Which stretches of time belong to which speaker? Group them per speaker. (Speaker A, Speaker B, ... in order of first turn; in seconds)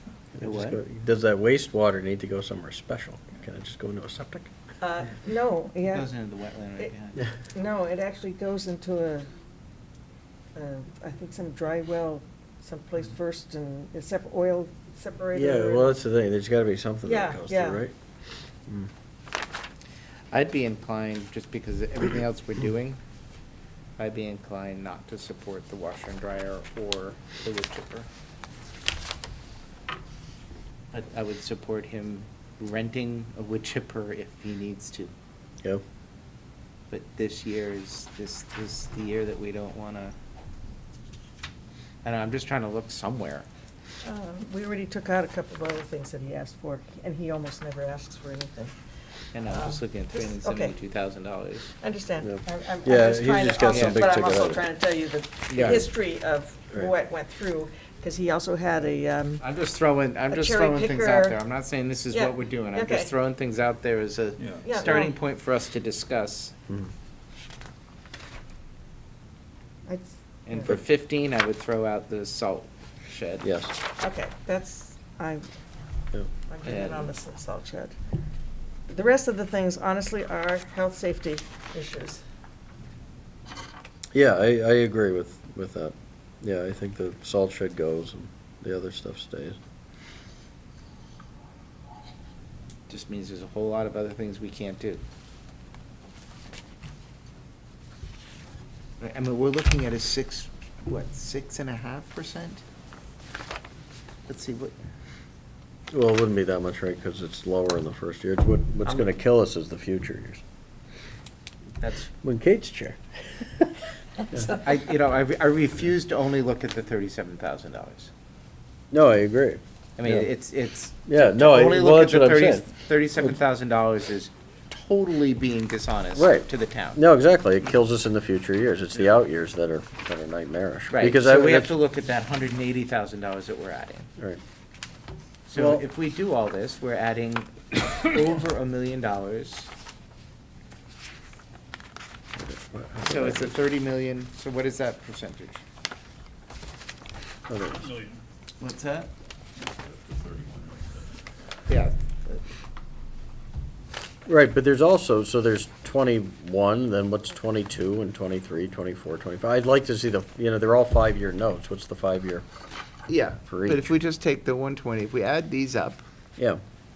Speaker A: 0.3-4.5, 15.3-17.9, 52.2-54.6, 55.6-55.9, 73.4-73.7, 84.1-89.6, 105.9-110.4, 112.1-113.8, 114.3-114.5, 118.9-120.3, 121.0-122.7, 126.1-131.8, 135.5-135.8, 142.3-143.5, 147.5-147.8, 154.2-162.4, 163.4-163.9
Speaker B: 0.4-0.8, 5.9-7.2, 20.3-23.0, 24.0-28.1, 30.9-35.1, 36.9-40.1, 42.0-43.5, 49.3-51.7, 53.7-54.0, 55.5-55.9, 59.4-66.5, 70.5-73.5, 76.6-77.1, 92.9-95.0, 99.0-102.6, 104.3-104.8, 108.8-109.2, 111.8-112.1, 114.5-118.1, 120.0-127.0, 130.9-134.1, 135.5-139.7, 143.0-145.6, 148.6-149.1, 151.7-152.4, 163.1-166.0
Speaker C: 4.8-6.1, 7.5-9.3, 10.5-15.9, 17.0-17.8, 44.0-48.7, 49.4-50.8, 51.8-59.4, 60.3-61.4, 62.1-63.1, 64.6-65.2, 69.8-70.7, 74.0-75.5, 76.5-78.0, 78.9-82.2
Speaker D: 64.4-64.7, 147.6-148.2, 149.6-151.2